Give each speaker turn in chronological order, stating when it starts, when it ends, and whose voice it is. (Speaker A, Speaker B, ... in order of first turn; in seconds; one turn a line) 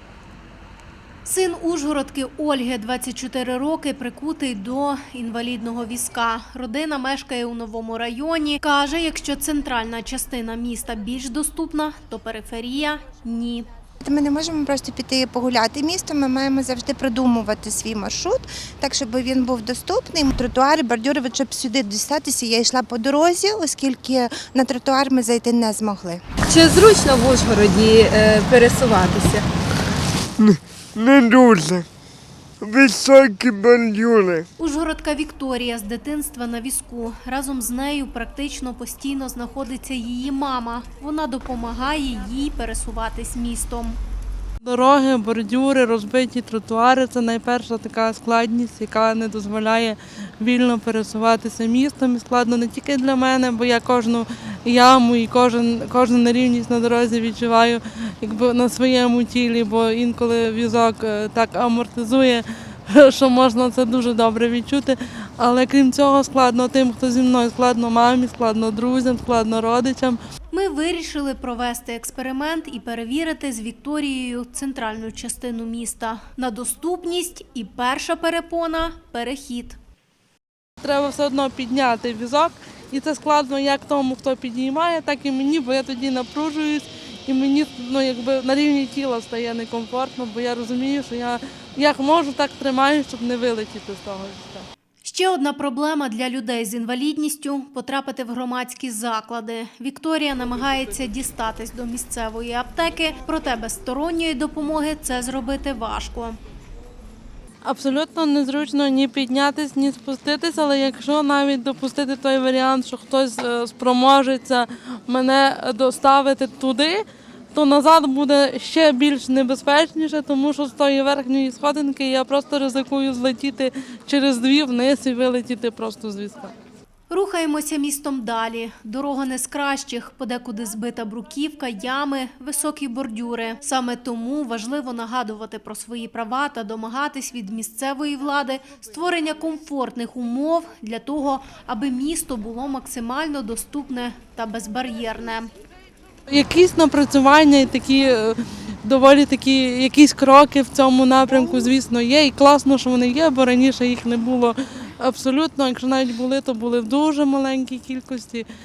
Speaker A: 1.2-13.7
Speaker B: 14.0-26.2
Speaker C: 26.5-29.4
Speaker D: 30.4-31.9
Speaker D: 32.6-34.5
Speaker A: 34.6-44.0
Speaker E: 44.6-70.2
Speaker A: 70.5-79.8
Speaker E: 80.8-94.7
Speaker A: 95.0-106.4
Speaker E: 107.6-117.0
Speaker E: 117.5-126.5
Speaker A: 127.1-145.5
Speaker E: 146.3-158.5